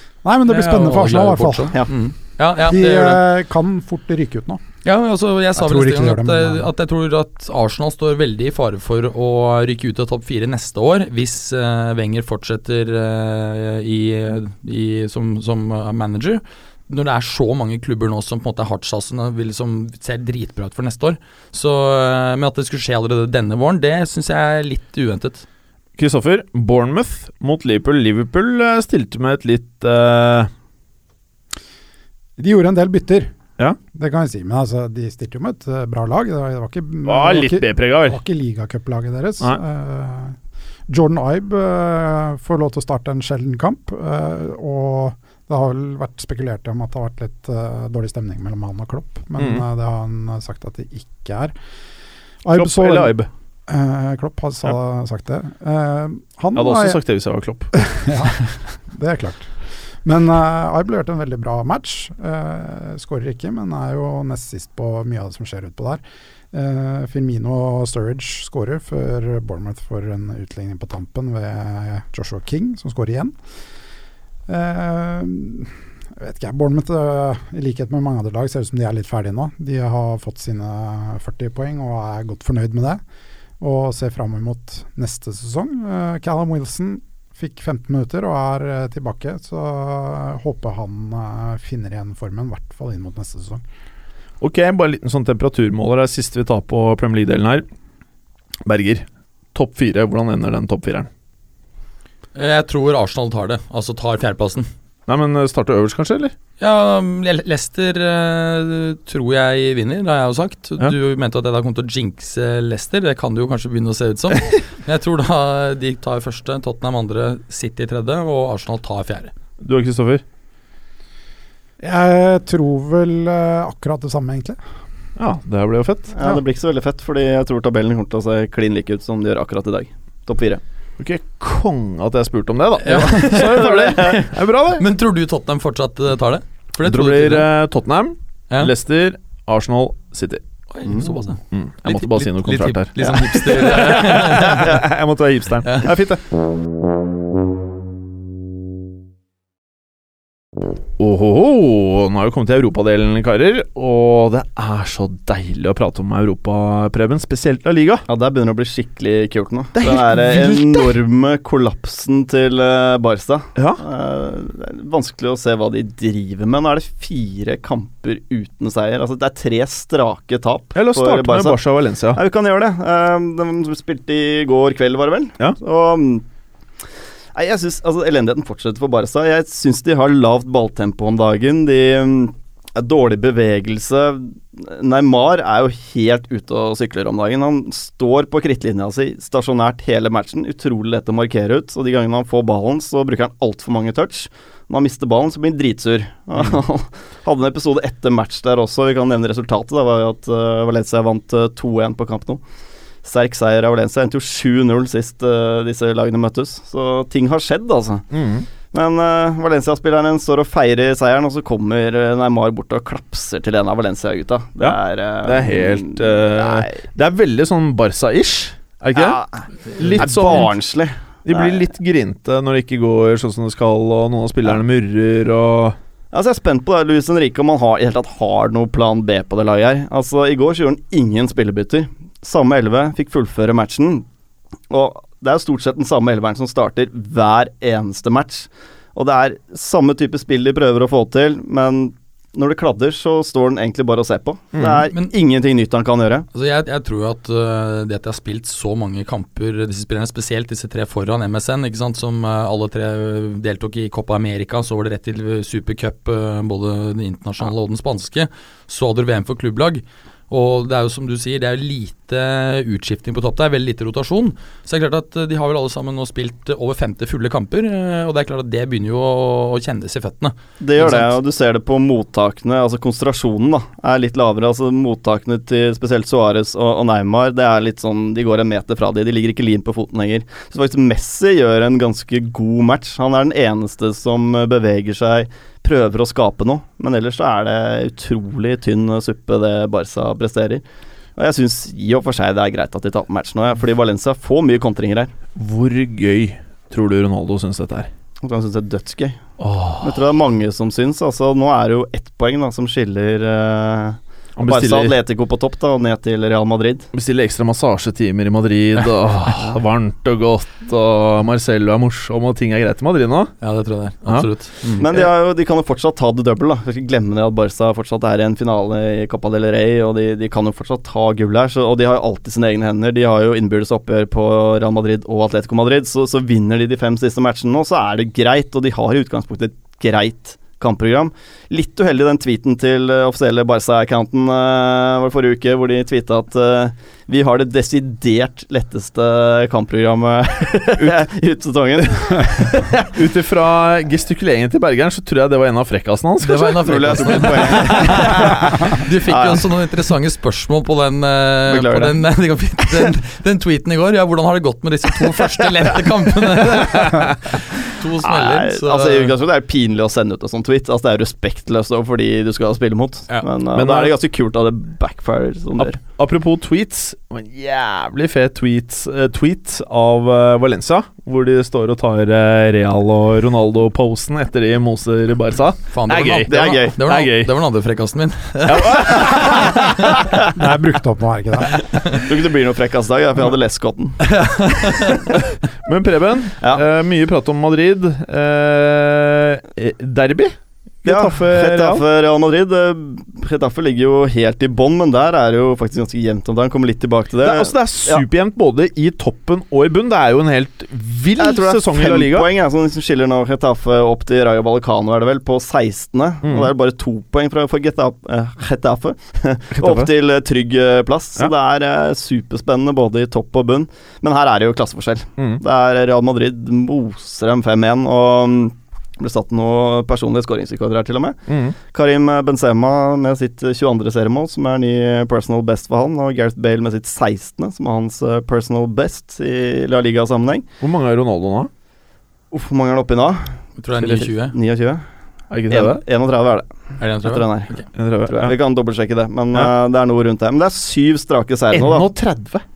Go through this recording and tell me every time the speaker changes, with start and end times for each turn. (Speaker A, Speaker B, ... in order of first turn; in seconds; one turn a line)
Speaker A: 0.2-1.8
Speaker B: 0.5-3.2
Speaker A: 2.6-4.6
Speaker B: 4.8-25.4
Speaker A: 5.5-6.7
Speaker C: 26.0-30.5
Speaker A: 32.4-33.3
Speaker A: 33.9-40.4
Speaker C: 37.0-38.2
Speaker A: 40.9-51.5
Speaker C: 49.4-49.6
Speaker A: 52.4-53.1
Speaker C: 52.5-53.3
Speaker A: 53.7-57.0
Speaker C: 56.5-57.8
Speaker A: 57.8-73.3
Speaker A: 74.5-83.0
Speaker A: 83.6-93.6
Speaker C: 94.4-97.6
Speaker C: 98.7-101.1
Speaker B: 102.3-104.7
Speaker C: 105.1-106.3
Speaker B: 106.6-119.3
Speaker C: 119.6-120.2
Speaker A: 121.8-124.6
Speaker C: 125.2-126.1
Speaker D: 126.1-130.6
Speaker C: 131.0-134.8
Speaker B: 132.8-137.5
Speaker D: 133.2-134.1
Speaker C: 136.8-140.4
Speaker B: 140.7-144.8
Speaker C: 141.5-146.2
Speaker C: 151.0-158.0
Speaker D: 158.1-171.6
Speaker C: 159.8-161.0
Speaker C: 163.6-163.8
Speaker C: 170.7-172.2
Speaker D: 172.1-176.2
Speaker D: 177.3-202.4
Speaker D: 203.0-208.1
Speaker C: 208.1-208.4
Speaker D: 208.7-216.8
Speaker C: 214.6-219.2
Speaker D: 218.9-221.7
Speaker C: 219.7-220.5
Speaker C: 221.2-225.8
Speaker D: 226.1-234.1
Speaker D: 234.7-246.2
Speaker C: 244.5-244.8
Speaker B: 246.3-271.1
Speaker D: 270.6-290.6
Speaker D: 291.1-295.1
Speaker C: 295.4-297.9
Speaker D: 298.2-299.2
Speaker C: 299.4-300.0
Speaker D: 299.8-306.9
Speaker C: 304.4-305.0
Speaker C: 306.9-313.3
Speaker B: 313.4-315.1
Speaker D: 314.8-342.9
Speaker C: 342.8-348.4
Speaker B: 346.2-359.1
Speaker D: 346.6-349.5
Speaker D: 351.5-352.0
Speaker C: 356.7-357.0
Speaker D: 358.0-365.8
Speaker C: 363.5-363.9
Speaker C: 365.6-377.3
Speaker B: 375.7-379.7
Speaker D: 376.0-376.7
Speaker C: 378.5-379.9
Speaker A: 380.3-381.6
Speaker D: 381.9-384.2
Speaker B: 384.1-385.1
Speaker C: 385.6-391.8
Speaker D: 390.8-398.0
Speaker C: 397.2-402.3
Speaker D: 401.2-430.4
Speaker C: 406.2-406.5
Speaker C: 409.5-409.9
Speaker C: 421.3-421.6
Speaker C: 430.6-431.5
Speaker D: 432.3-434.8
Speaker B: 433.6-434.3
Speaker C: 435.3-435.8
Speaker D: 435.5-436.5
Speaker B: 436.8-437.7
Speaker D: 437.0-441.9
Speaker C: 437.7-438.4
Speaker C: 441.5-442.4